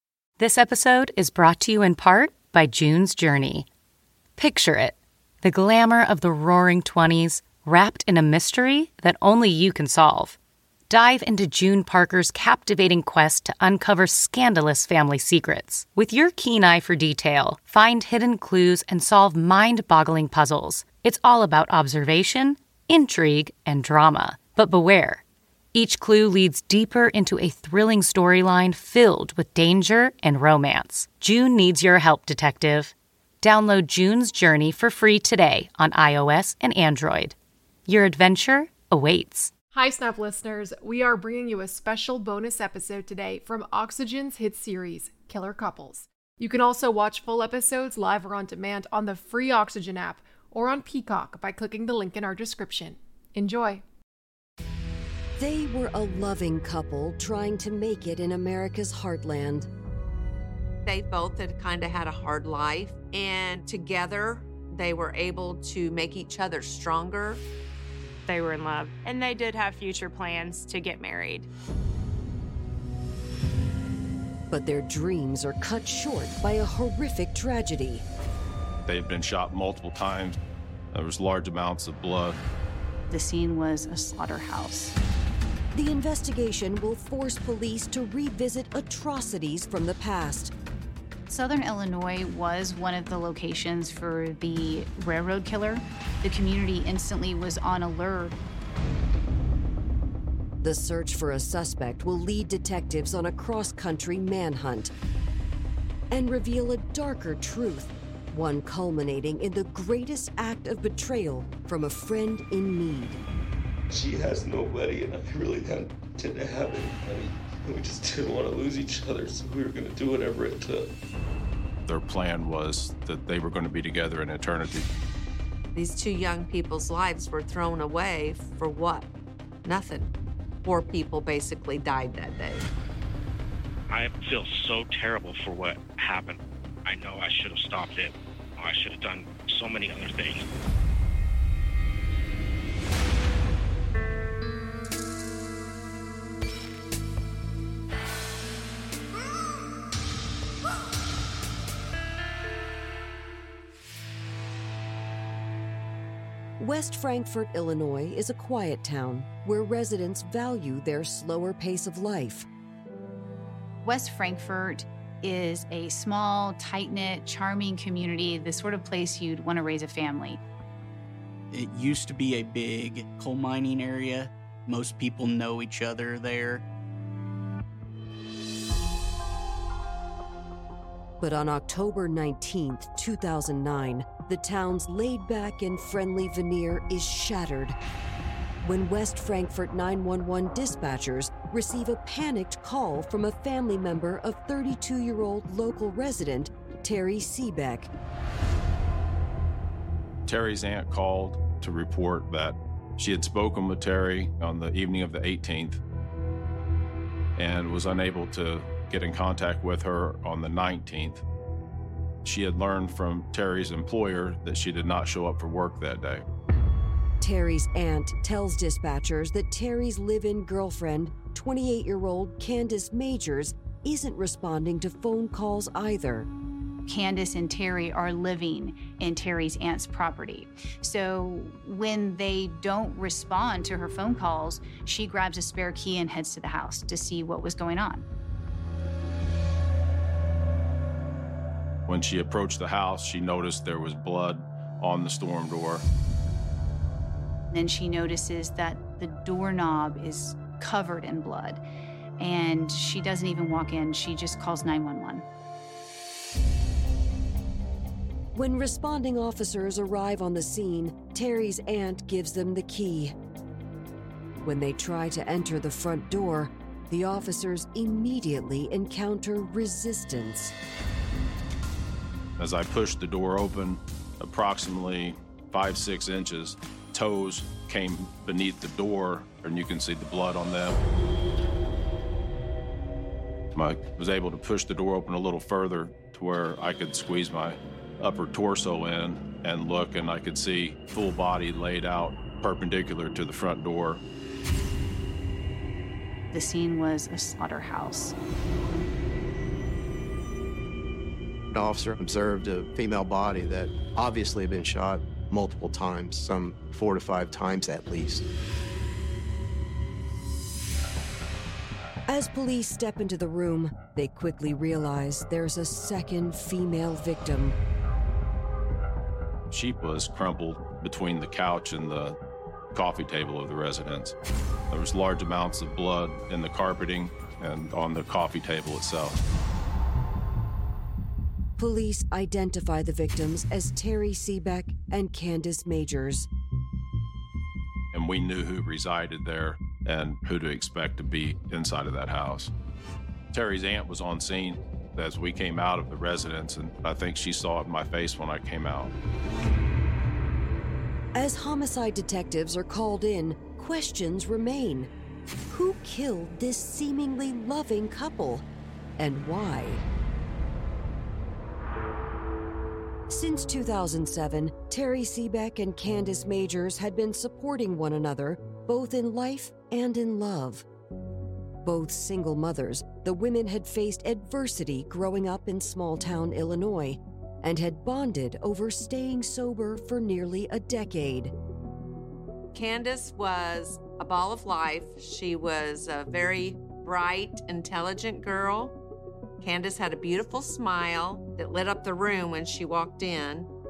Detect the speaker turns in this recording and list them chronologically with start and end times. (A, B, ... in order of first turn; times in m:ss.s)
0:00.4-0:03.7 A
0:04.4-0:10.4 A
0:10.9-0:25.2 A
0:25.7-0:37.3 A
0:37.8-0:39.5 A
0:39.7-0:53.8 B
0:55.4-0:59.7 C
1:00.8-1:07.4 D
1:08.3-1:11.5 E
1:14.5-1:18.0 C
1:18.8-1:20.4 F
1:20.9-1:22.4 F
1:23.1-1:24.9 G
1:25.7-1:30.5 C
1:31.3-1:38.4 G
1:40.6-1:44.9 C
1:46.1-1:53.2 C
1:53.9-2:01.0 H
2:01.8-2:04.9 F
2:05.7-2:09.1 D
2:09.6-2:10.1 D
2:10.6-2:12.7 D
2:13.9-2:20.5 I
2:36.6-2:42.5 C
2:43.8-2:50.4 G
2:51.5-2:56.6 J
3:01.2-3:07.7 C
3:08.6-3:17.9 C
3:20.3-3:25.8 F
3:27.4-3:31.2 F
3:32.2-3:36.2 F
3:37.2-3:46.3 C
3:46.9-3:58.0 G
4:01.9-4:05.8 F
4:07.5-4:11.6 G
4:12.2-4:15.2 G
4:18.3-4:23.1 C
4:24.4-4:30.5 C
4:32.4-4:40.8 F
4:43.5-4:54.0 F
4:56.3-4:58.1 G
5:01.5-5:08.2 K
5:12.1-5:17.6 C
5:19.5-5:22.2 F
5:22.7-5:24.1 F
5:24.7-5:29.2 F
5:31.6-5:36.3 C
5:37.9-5:42.5 F
5:43.3-5:48.9 F
5:51.1-5:54.9 C
5:55.5-5:58.4 C
5:59.0-5:59.8 C
6:03.1-6:10.6 C
6:11.6-6:21.3 C
6:22.5-6:28.8 D
6:29.4-6:33.5 D